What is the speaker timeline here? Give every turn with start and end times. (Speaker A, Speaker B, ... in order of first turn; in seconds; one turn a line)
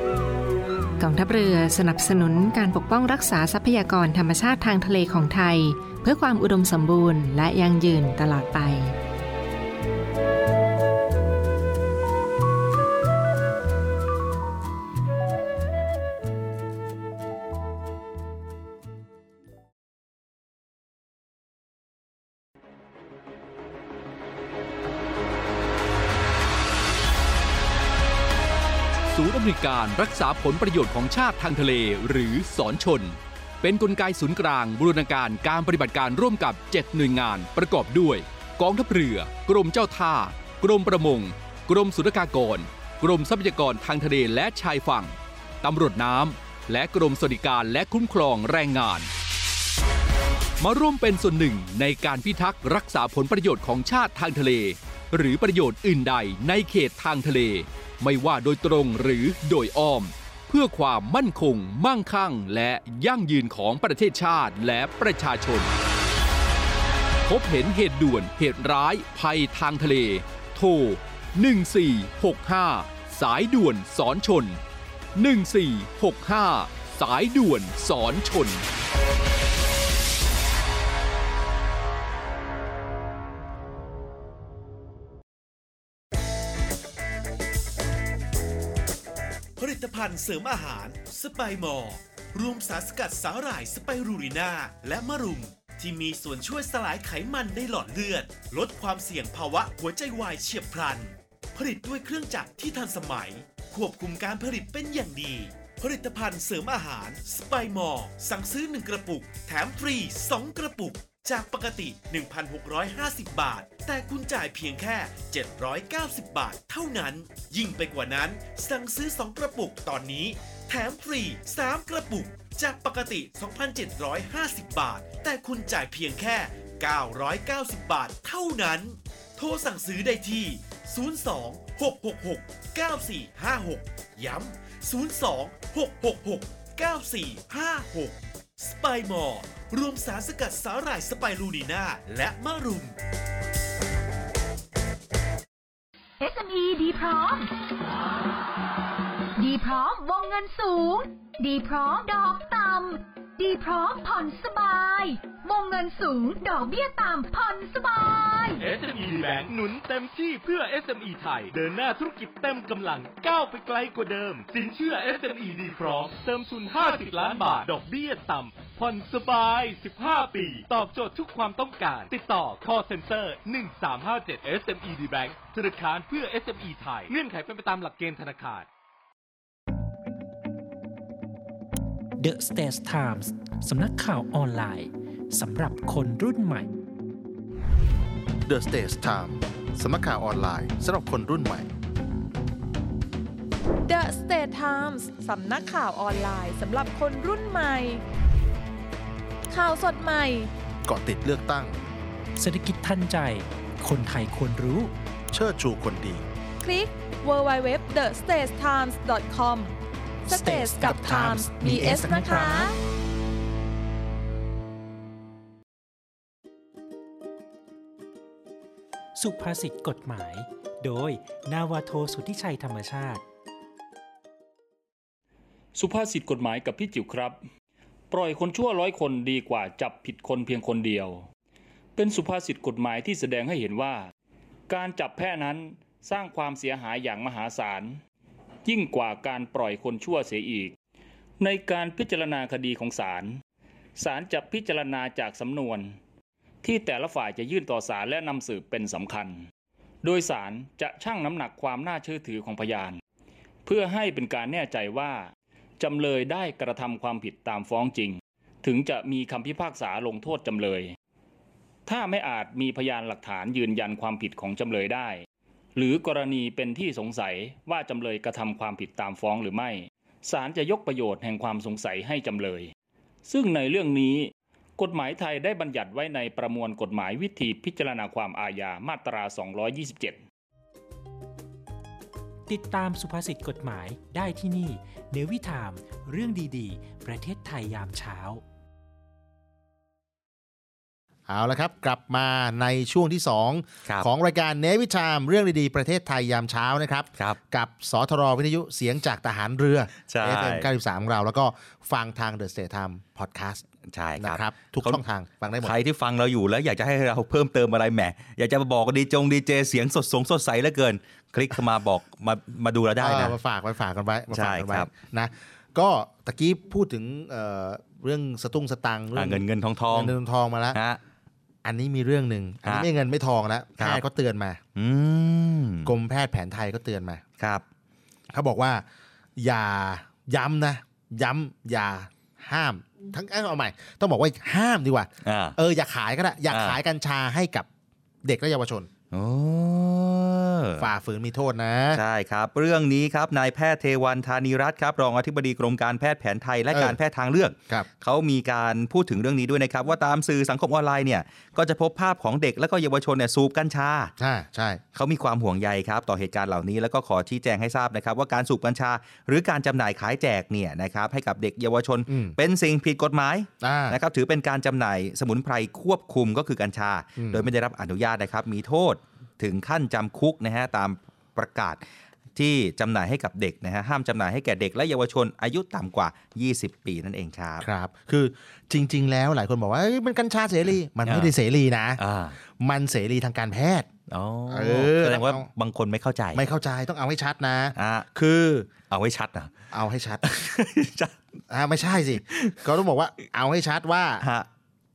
Speaker A: 1.0-8.9
Speaker B: 29.1-49.1
Speaker B: 50.6-65.7
Speaker B: 67.2-74.6
Speaker B: 75.2-78.6
Speaker C: 89.6-142.9
Speaker D: 146.2-147.5
Speaker D: 149.4-158.6
Speaker E: 158.6-178.7
Speaker F: 182.2-186.7
Speaker G: 188.5-191.7
Speaker H: 193.9-198.0
Speaker H: 199.5-200.5
Speaker G: 200.8-201.8
Speaker F: 202.4-204.9
Speaker G: 205.3-206.2
Speaker H: 206.6-209.7
Speaker H: 210.3-212.8
Speaker F: 210.3-212.7
Speaker G: 210.8-212.6
Speaker F: 219.1-223.2
Speaker I: 225.8-227.4
Speaker I: 228.1-231.3
Speaker I: 231.9-234.1
Speaker I: 234.7-238.0
Speaker I: 238.6-240.7
Speaker I: 241.4-243.4
Speaker I: 244.0-245.9
Speaker I: 246.6-249.5
Speaker I: 250.0-253.0
Speaker I: 253.6-260.9
Speaker I: 261.9-272.7
Speaker I: 273.3-280.2
Speaker F: 282.5-288.4
Speaker G: 291.3-303.6
Speaker J: 300.1-300.7
Speaker J: 303.9-305.0
Speaker G: 304.2-305.7
Speaker J: 305.6-313.4
Speaker G: 313.0-320.8
Speaker J: 314.3-314.9
Speaker J: 319.1-320.1
Speaker J: 320.7-321.0
Speaker G: 321.6-324.6
Speaker J: 323.8-324.0
Speaker J: 324.7-325.9
Speaker G: 325.8-327.2
Speaker J: 327.4-327.6
Speaker G: 328.3-328.8
Speaker G: 329.4-337.7
Speaker J: 335.2-335.6
Speaker J: 336.5-336.8
Speaker G: 338.2-338.9
Speaker J: 339.1-340.9
Speaker G: 340.8-342.0
Speaker J: 341.9-354.1
Speaker G: 346.7-347.0
Speaker G: 354.2-354.8
Speaker J: 354.9-371.8
Speaker G: 362.1-362.4
Speaker G: 363.6-364.0
Speaker G: 367.2-367.5
Speaker J: 372.3-377.6
Speaker G: 377.6-382.0
Speaker J: 381.1-381.3
Speaker J: 382.0-382.4
Speaker G: 382.6-383.9
Speaker J: 384.1-386.4
Speaker G: 384.5-385.5
Speaker G: 386.3-388.7
Speaker J: 387.7-388.1
Speaker J: 388.9-389.5
Speaker G: 389.7-390.2
Speaker J: 390.2-391.2
Speaker G: 391.5-394.2
Speaker J: 392.3-392.6
Speaker J: 394.2-394.5